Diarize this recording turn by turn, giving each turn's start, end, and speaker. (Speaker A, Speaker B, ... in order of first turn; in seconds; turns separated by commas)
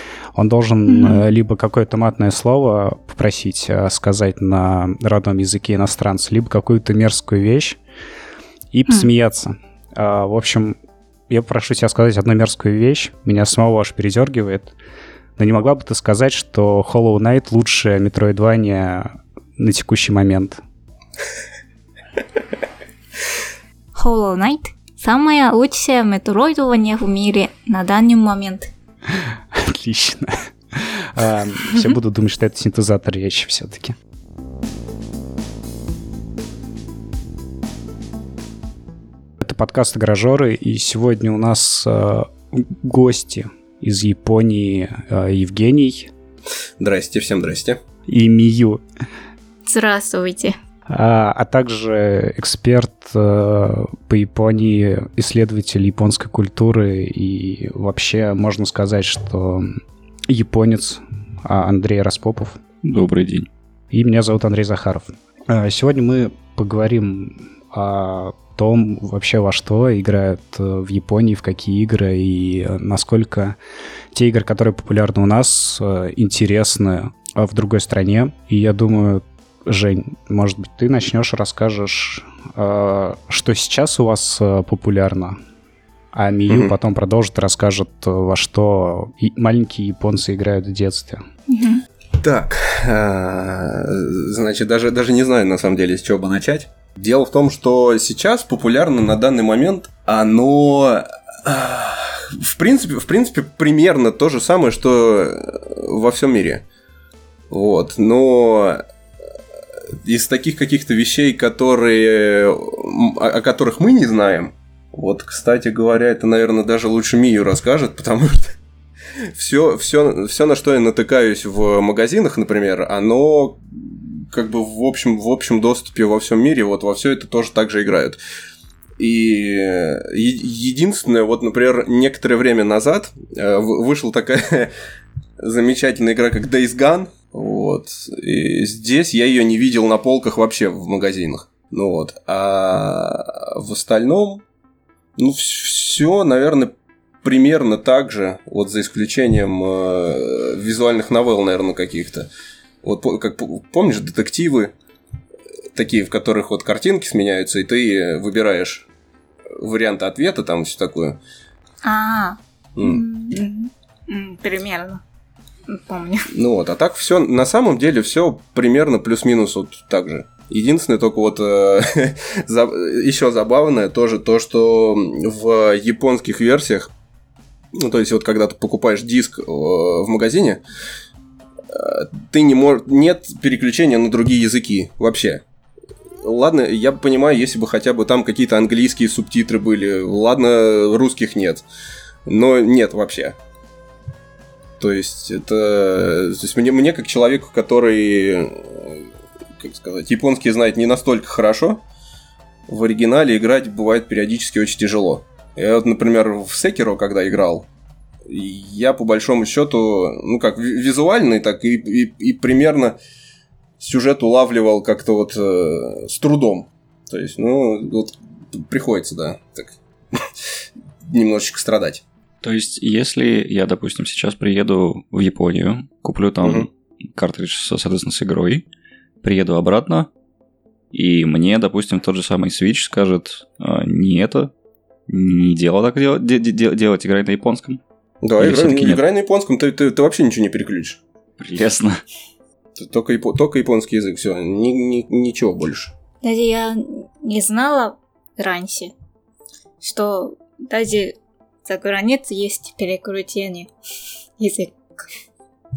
Speaker A: 0.3-7.8, Speaker B: 0.9-1.2, Speaker A: 8.7-10.8, Speaker A: 11.3-14.7, Speaker A: 15.4-20.6, Speaker B: 23.9-28.7, Speaker A: 29.2-34.0, Speaker A: 39.4-46.1, Speaker C: 46.8-47.8, Speaker A: 48.1-48.8, Speaker B: 49.6-50.6, Speaker A: 50.9-62.6, Speaker D: 62.8-63.5, Speaker A: 63.9-73.6, Speaker A: 74.1-85.4, Speaker A: 86.1-91.2, Speaker C: 86.5-86.7, Speaker B: 91.5-91.8, Speaker C: 92.2-106.6, Speaker C: 107.5-108.8, Speaker C: 109.9-118.6, Speaker C: 119.1-128.2, Speaker C: 129.0-134.7, Speaker C: 135.4-144.4, Speaker C: 145.2-146.7, Speaker C: 147.2-152.3, Speaker C: 152.8-154.7, Speaker C: 155.7-158.9, Speaker C: 159.6-161.2, Speaker B: 161.8-165.0, Speaker C: 162.8-163.0, Speaker B: 165.7-166.3, Speaker C: 166.3-176.9, Speaker C: 177.7-180.6, Speaker C: 181.7-185.4, Speaker C: 186.2-191.6, Speaker C: 192.2-193.4, Speaker C: 194.8-199.1, Speaker C: 199.6-201.8, Speaker C: 202.7-207.7, Speaker C: 208.2-212.9, Speaker C: 213.8-220.3, Speaker C: 221.0-222.0, Speaker D: 222.4-228.7, Speaker C: 226.4-226.7, Speaker D: 229.2-230.1, Speaker D: 230.9-234.5, Speaker D: 235.1-237.8, Speaker C: 238.2-241.0, Speaker D: 238.4-239.0, Speaker D: 241.4-242.0, Speaker C: 242.8-245.9, Speaker B: 246.2-248.9, Speaker B: 249.8-253.7, Speaker B: 254.4-255.1